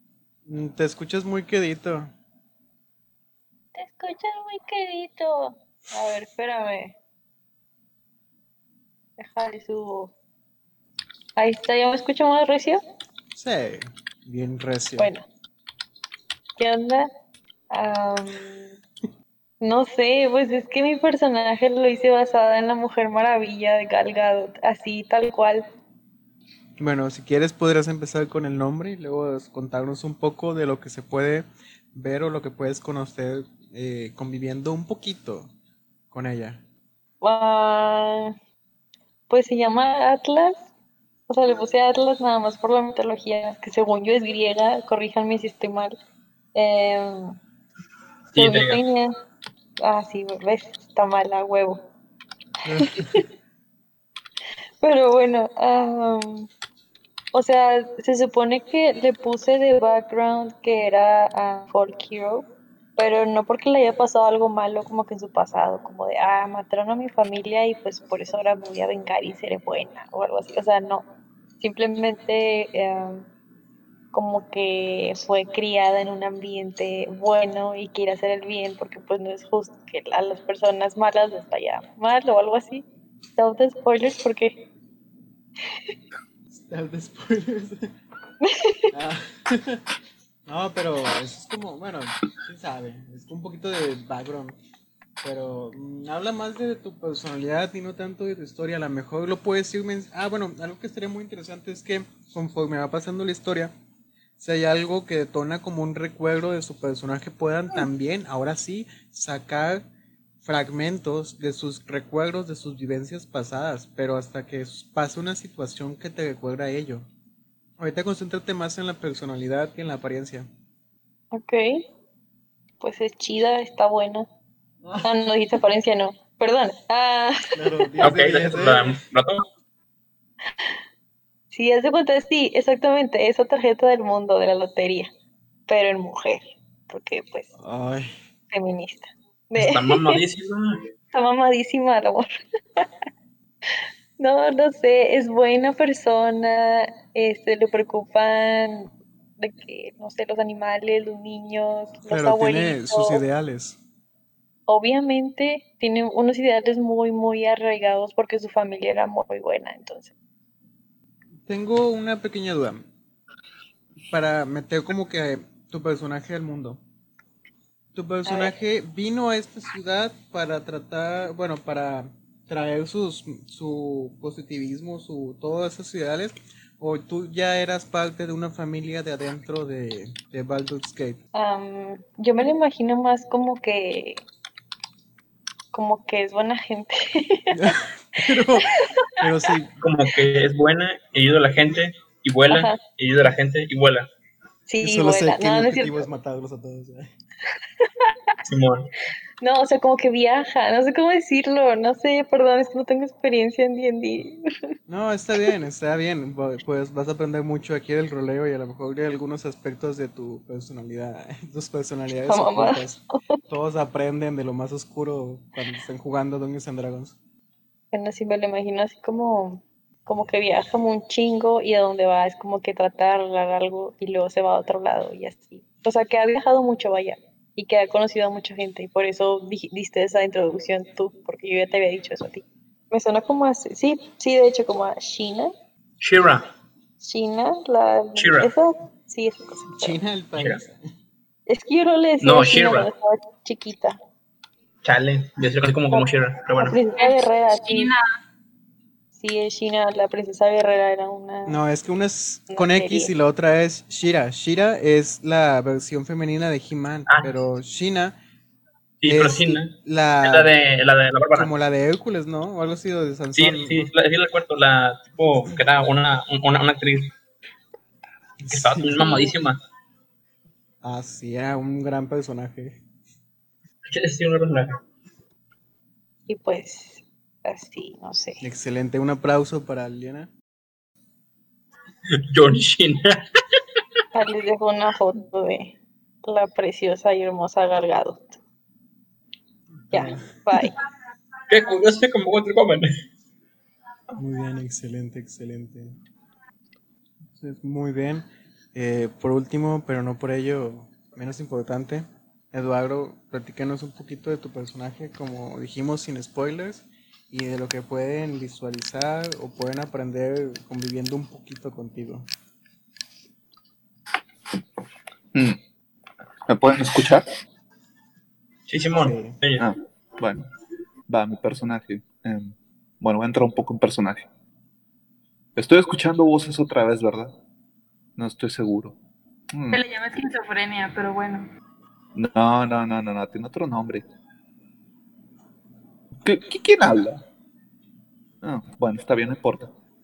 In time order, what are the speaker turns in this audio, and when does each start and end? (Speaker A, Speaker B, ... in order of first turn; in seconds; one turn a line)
Speaker A: 0.5-2.1
Speaker B: 3.8-7.0
Speaker B: 9.2-10.1
Speaker B: 11.4-12.8
Speaker A: 13.3-15.1
Speaker B: 15.0-15.2
Speaker B: 16.6-17.1
Speaker B: 17.7-18.8
Speaker B: 19.6-25.6
Speaker A: 26.8-35.5
Speaker A: 36.1-36.6
Speaker B: 37.2-38.3
Speaker B: 39.3-40.6
Speaker B: 41.3-46.0
Speaker B: 46.5-47.3
Speaker C: 48.3-48.8
Speaker B: 48.4-49.1
Speaker B: 49.8-51.8
Speaker A: 52.6-53.2
Speaker B: 52.9-53.2
Speaker B: 54.8-56.5
Speaker B: 57.3-71.0
Speaker B: 71.6-73.3
Speaker B: 74.1-82.8
Speaker B: 83.4-84.5
Speaker A: 86.5-87.9
Speaker B: 88.4-88.9
Speaker A: 88.9-89.8
Speaker A: 90.5-94.6
Speaker A: 95.2-103.7
Speaker A: 104.4-109.8
Speaker A: 110.4-117.1
Speaker A: 117.8-120.5
Speaker B: 121.3-121.8
Speaker B: 122.8-124.3
Speaker B: 125.0-127.9
Speaker A: 127.6-129.0
Speaker C: 128.0-129.4
Speaker B: 131.5-135.1
Speaker B: 135.7-137.5
Speaker A: 137.6-138.1
Speaker B: 138.5-140.2
Speaker C: 139.6-140.8
Speaker B: 141.1-142.3
Speaker B: 144.2-153.2
Speaker A: 152.1-153.8
Speaker B: 154.7-160.1
Speaker A: 161.5-162.8
Speaker A: 164.1-166.8
Speaker A: 167.9-181.2
Speaker B: 168.2-168.5
Speaker B: 181.3-184.2
Speaker B: 185.7-187.6
Speaker A: 187.5-189.7
Speaker B: 188.6-189.2
Speaker C: 189.8-194.1
Speaker B: 192.5-192.8
Speaker B: 194.7-196.0
Speaker A: 194.8-197.1
Speaker C: 198.4-198.9
Speaker B: 199.4-204.7
Speaker A: 204.9-217.2
Speaker B: 212.3-212.8
Speaker B: 217.9-235.5
Speaker C: 236.0-236.5
Speaker B: 237.0-240.0
Speaker C: 238.2-238.5
Speaker A: 239.8-240.8
Speaker B: 241.5-244.0
Speaker C: 242.2-242.9
Speaker C: 244.8-246.8
Speaker B: 245.9-247.9
Speaker D: 247.0-248.1
Speaker B: 249.2-251.6
Speaker A: 251.5-258.2
Speaker B: 252.5-253.1
Speaker C: 257.1-257.4
Speaker C: 259.0-261.5
Speaker A: 259.1-260.5
Speaker A: 261.3-263.9
Speaker C: 263.4-267.1
Speaker A: 268.4-269.2
Speaker C: 268.5-269.6
Speaker B: 269.0-269.3
Speaker A: 270.8-272.8
Speaker C: 273.9-274.8
Speaker B: 276.3-278.4
Speaker A: 278.4-280.3
Speaker C: 282.3-283.2
Speaker B: 284.1-288.4
Speaker A: 289.9-290.3
Speaker B: 289.9-290.7
Speaker C: 291.5-292.9
Speaker A: 294.2-296.0
Speaker A: 297.4-312.3
Speaker E: 315.3-315.6
Speaker E: 316.5-317.3
Speaker C: 318.7-319.7
Speaker A: 318.9-319.4
Speaker E: 319.6-320.4
Speaker E: 321.1-324.3
Speaker E: 325.6-327.3
Speaker E: 328.2-328.9
Speaker E: 329.5-329.8
Speaker D: 329.7-331.5
Speaker E: 332.1-334.1
Speaker E: 336.2-337.2
Speaker E: 338.4-339.7